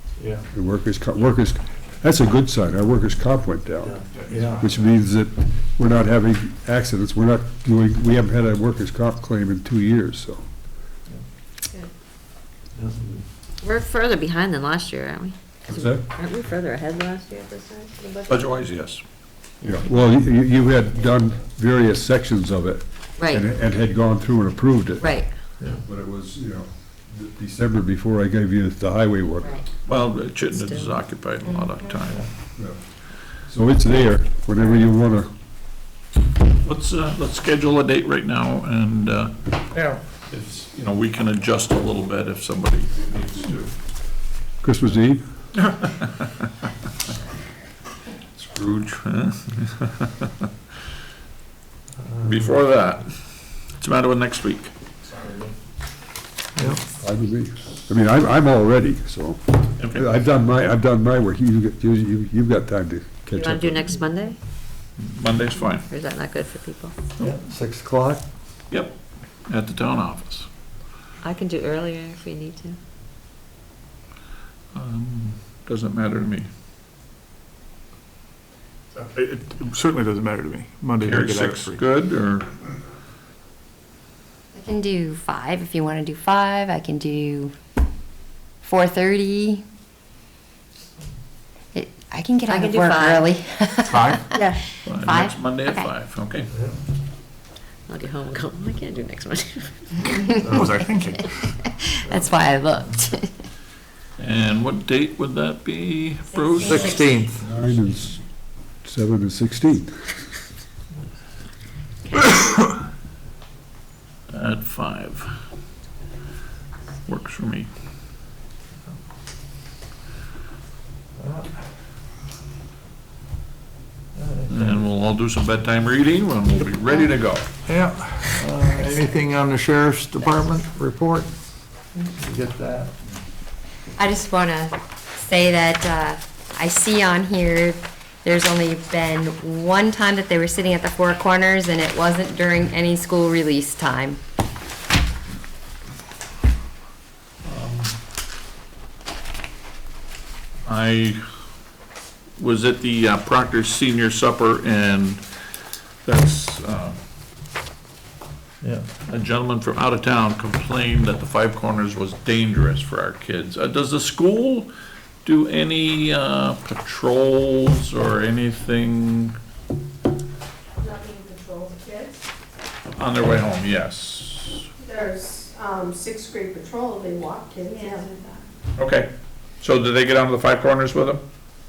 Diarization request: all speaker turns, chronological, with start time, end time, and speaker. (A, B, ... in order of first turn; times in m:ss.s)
0:00.2-0:00.4 A
0:00.5-0:10.4 B
0:03.9-0:04.7 A
0:12.8-0:13.2 A
0:13.6-0:15.4 C
0:15.7-0:16.1 B
0:16.2-0:18.3 C
0:18.3-0:19.0 D
0:19.6-0:25.2 B
0:25.8-0:29.6 B
0:29.9-0:32.3 D
0:30.6-0:30.9 C
0:33.3-0:35.3 B
0:36.6-0:39.5 D
0:39.7-0:40.0 A
0:40.3-0:43.7 D
0:44.6-0:45.2 B
0:45.7-0:46.3 D
0:48.4-0:50.5 D
0:52.2-0:53.2 D
0:53.8-0:54.7 D
0:56.9-1:04.0 B
0:59.8-1:00.0 D
1:03.4-1:04.4 C
1:05.1-1:05.9 D
1:05.9-1:06.9 C
1:07.2-1:08.2 A
1:09.5-1:10.5 D
1:11.2-1:12.8 C
1:14.7-1:16.5 D
1:18.9-1:21.8 E
1:21.0-1:22.6 D
1:24.5-1:27.5 F
1:28.6-1:29.6 F
1:31.7-1:35.9 F
1:32.5-1:33.2 C
1:33.9-1:34.4 E
1:34.8-1:36.5 D
1:37.9-1:40.3 C
1:40.4-1:41.5 E
1:42.0-1:43.3 F
1:44.2-1:47.1 D
1:46.4-1:47.0 F
1:46.6-1:47.4 A
1:47.4-1:48.2 B
1:48.8-1:49.9 B
1:54.3-1:55.3 D
1:57.1-1:57.7 D
2:01.2-2:01.5 A
2:04.2-2:04.8 A
2:04.5-2:07.5 D
2:07.7-2:11.3 A
2:12.1-2:12.9 A
2:14.0-2:24.2 F
2:27.4-2:28.0 D
2:30.6-2:31.2 D
2:32.4-2:35.2 D
2:36.0-2:37.0 D
2:38.6-2:38.9 A
2:39.1-2:44.7 D
2:45.2-2:49.4 D
2:50.8-2:52.2 G
2:53.0-2:54.7 D
2:54.8-2:58.4 G
2:58.8-3:01.2 D